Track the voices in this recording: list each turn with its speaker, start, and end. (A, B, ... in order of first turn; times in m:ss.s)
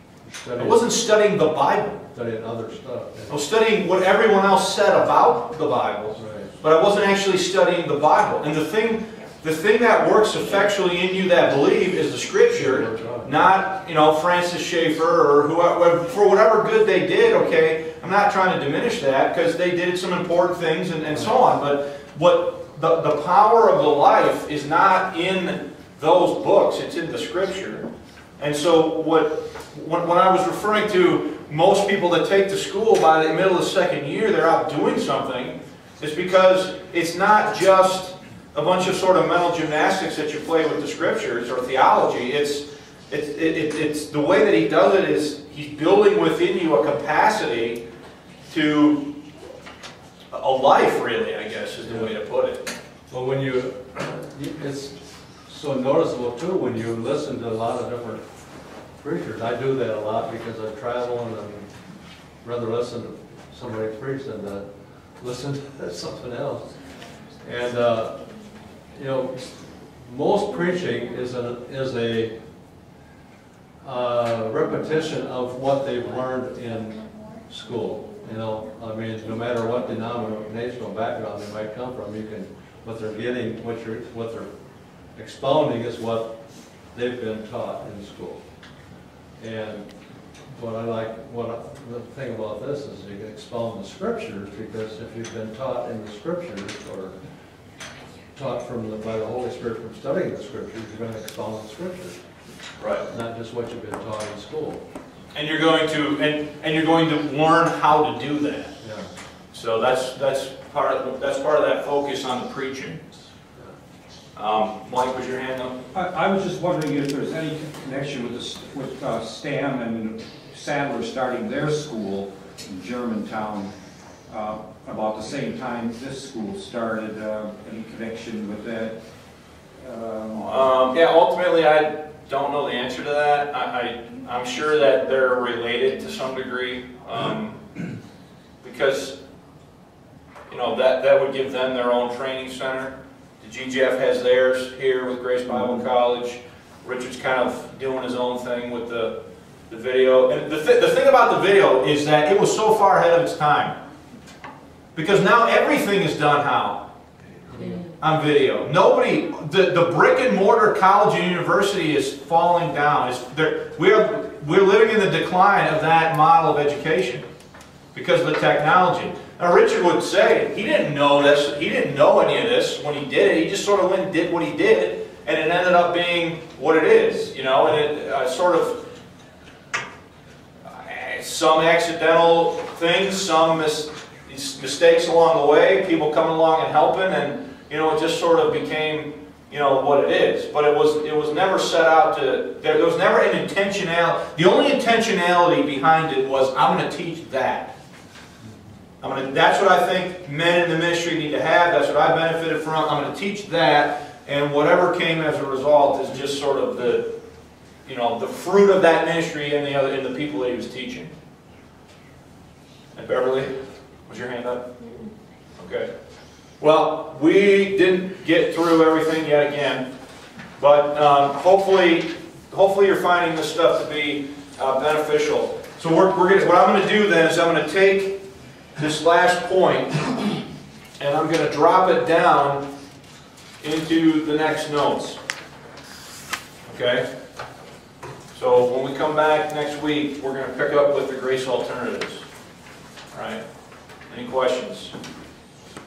0:00.2-0:00.9 A
0:00.6-0:02.1 B
0:02.1-0:03.3 A
0:03.3-0:27.9 B
0:06.2-0:06.5 A
0:12.6-0:13.4 A
0:28.4-0:47.8 B
0:48.5-0:49.2 B
0:50.3-0:52.6 B
0:51.8-0:52.1 A
0:53.1-0:58.3 A
0:59.0-1:01.7 A
1:02.4-1:06.8 A
1:07.4-1:08.3 A
1:08.9-1:12.4 A
1:13.8-1:24.6 A
1:25.1-1:28.4 A
1:29.4-1:29.9 A
1:30.5-1:37.2 A
1:38.4-1:42.2 A
1:42.8-1:43.1 B
1:43.1-1:44.8 A
1:45.3-1:48.7 B
1:48.8-1:49.1 A
1:49.5-1:53.2 B
1:54.4-1:55.8 B
1:55.9-2:03.7 C
2:04.3-2:09.0 C
2:09.8-2:10.7 C
2:10.5-2:17.9 B
2:18.6-2:19.2 B
2:20.5-2:29.2 B
2:29.7-2:33.8 B
2:35.0-2:36.9 B
2:37.5-2:47.2 B
2:47.9-2:58.9 B
3:00.6-3:17.7 B
3:19.0-3:27.2 B
3:27.8-3:31.1 B
3:33.0-3:33.6 B
3:34.1-3:35.0 B
3:35.6-3:35.9 B
3:36.6-3:39.9 B
3:40.6-3:48.2 B
3:48.8-3:50.3 B
3:51.0-3:52.6 B
3:53.6-3:55.2 B
3:56.7-3:57.1 B
3:58.3-4:02.2 B
4:03.1-4:03.4 B
4:04.1-4:05.0 B